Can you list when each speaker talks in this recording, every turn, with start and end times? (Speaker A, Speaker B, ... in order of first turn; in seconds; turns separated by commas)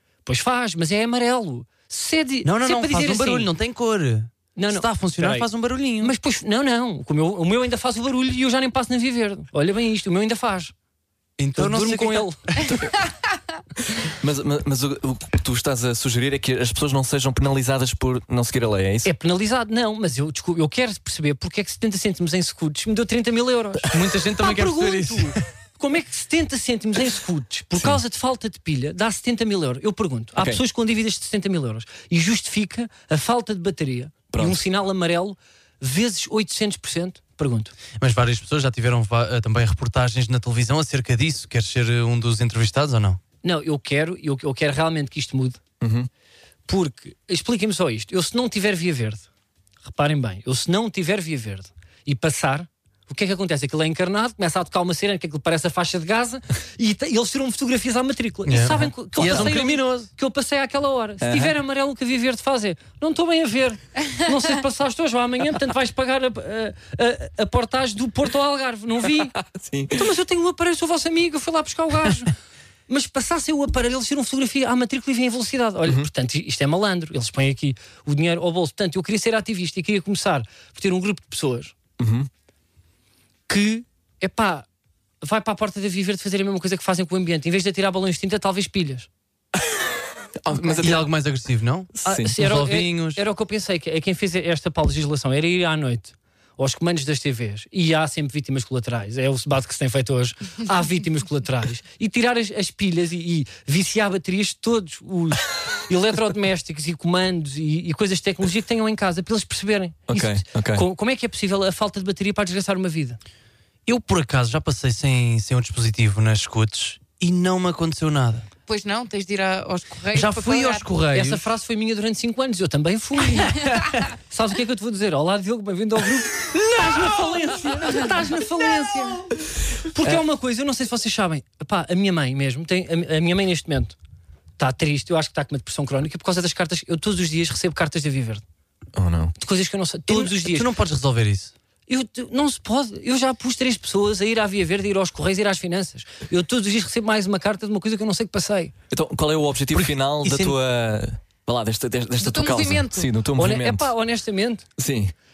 Speaker A: 0.3-3.5, Speaker B: 2.5-6.1, Speaker A: 4.6-5.5, Speaker A: 6.0-10.7, Speaker B: 11.4-12.7, Speaker A: 11.6-12.4, Speaker C: 12.7-12.9, Speaker C: 13.9-19.1, Speaker A: 19.1-37.7, Speaker B: 23.9-25.4, Speaker C: 27.8-28.0, Speaker C: 30.4-30.6, Speaker C: 34.3-34.6, Speaker B: 38.0-43.2, Speaker A: 43.4-45.6, Speaker C: 45.8-46.1, Speaker A: 46.7-49.3, Speaker A: 49.8-69.4, Speaker B: 58.5-60.1, Speaker C: 61.2-61.5, Speaker C: 69.2-70.1, Speaker A: 69.9-72.3, Speaker A: 72.9-81.7, Speaker C: 82.0-82.3, Speaker A: 83.5-84.7, Speaker A: 85.2-89.1, Speaker C: 90.4-91.1, Speaker B: 90.8-93.2, Speaker C: 92.0-92.3, Speaker A: 92.0-113.2, Speaker C: 110.1-110.8, Speaker B: 113.9-118.5, Speaker D: 118.7-120.8, Speaker B: 120.1-121.5, Speaker A: 121.1-129.3, Speaker A: 129.9-134.0, Speaker A: 134.6-138.4, Speaker C: 138.9-139.3, Speaker A: 139.4-140.7, Speaker B: 140.1-141.5, Speaker A: 141.9-148.7, Speaker C: 148.9-153.9, Speaker B: 149.8-150.6, Speaker D: 152.2-153.1, Speaker A: 153.4-154.6, Speaker C: 154.8-155.1